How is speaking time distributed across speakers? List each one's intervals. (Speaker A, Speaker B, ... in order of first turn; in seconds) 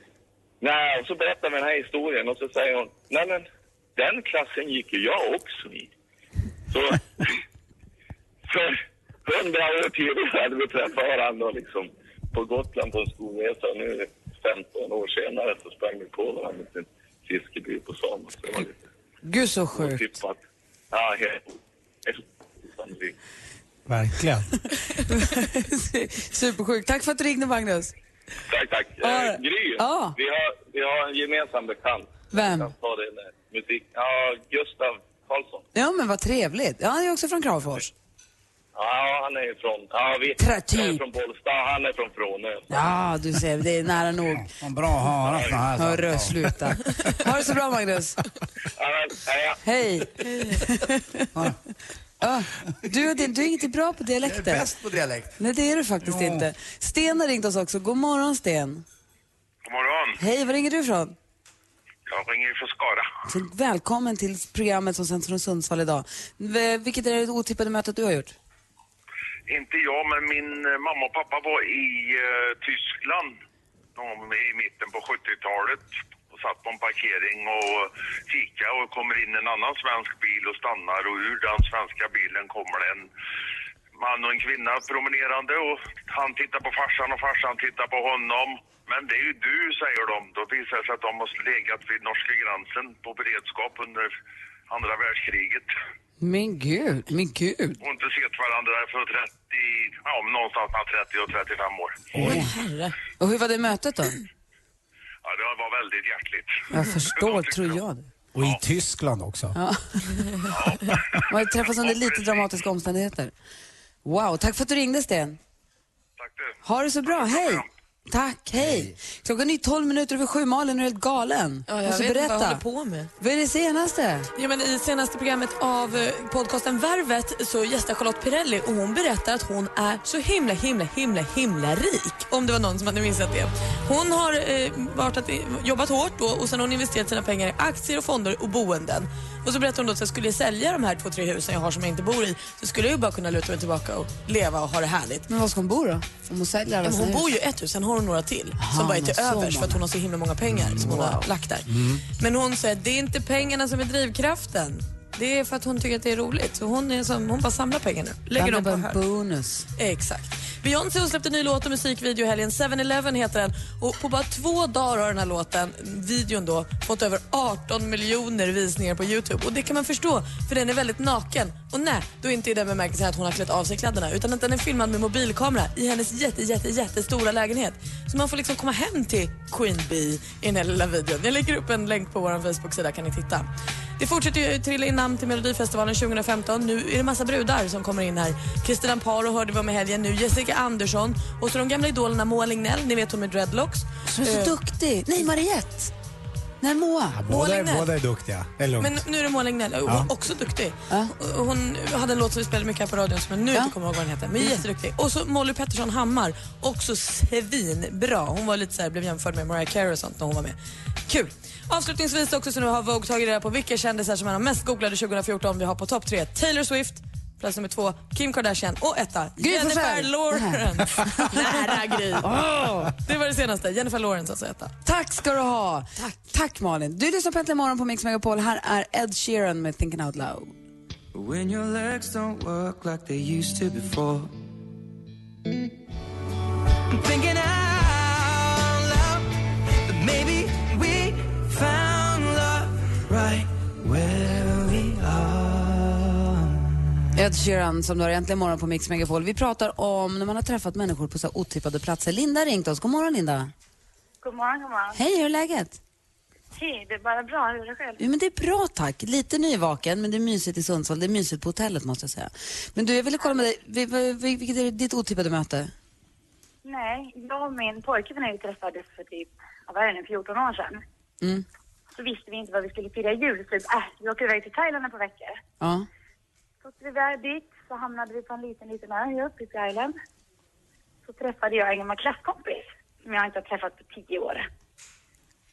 Speaker A: 0.6-5.9, 6.7-7.3, 8.5-18.8, 19.7-20.4, 20.9-21.5, 22.0-23.1, 28.5-35.6, 38.7-42.9, 48.8-49.6
Speaker B: 19.2-20.0, 24.9-27.9, 29.0-30.1, 32.3-32.7, 35.7-37.9, 40.4-41.0, 42.7-44.5, 45.8-48.2, 49.6-51.3, 52.2-54.6, 55.4-58.8, 60.2-61.1, 63.3-68.3, 96.2-97.8, 102.2-102.5, 103.2-104.2, 106.7-108.1, 109.5-110.3, 111.3-113.3, 114.0-115.4, 116.6-122.6, 123.2-124.3, 145.3-147.3, 148.6-149.8, 150.6-151.3, 158.3-159.7, 194.1-195.9, 196.6-197.2, 219.4-221.7, 222.2-222.9, 224.8-230.5, 247.1-253.5, 254.9-255.8, 258.0-265.7, 275.6-275.9
Speaker C: 23.9-24.5, 56.1-56.4, 108.3-109.6, 197.1-199.0
Speaker D: 44.6-46.4, 54.2-55.4, 118.6-118.9, 151.7-152.0
Speaker E: 59.6-60.2, 62.1-63.1, 69.5-73.4, 74.0-83.1, 84.0-94.1, 94.7-95.7, 97.8-102.1, 105.2-107.8, 110.5-111.0, 111.6-112.6, 116.2-117.6
Speaker F: 102.2-103.0, 121.7-123.1, 124.3-145.2, 146.8-159.0, 159.8-194.6, 197.3-197.9, 198.8-210.6, 211.1-224.7, 225.9-226.3
Speaker G: 231.1-234.3, 236.9-239.3, 239.9-246.5
Speaker H: 254.2-255.0, 256.5-258.0, 266.6-270.8, 271.9-275.4, 276.6-279.9, 281.1-284.5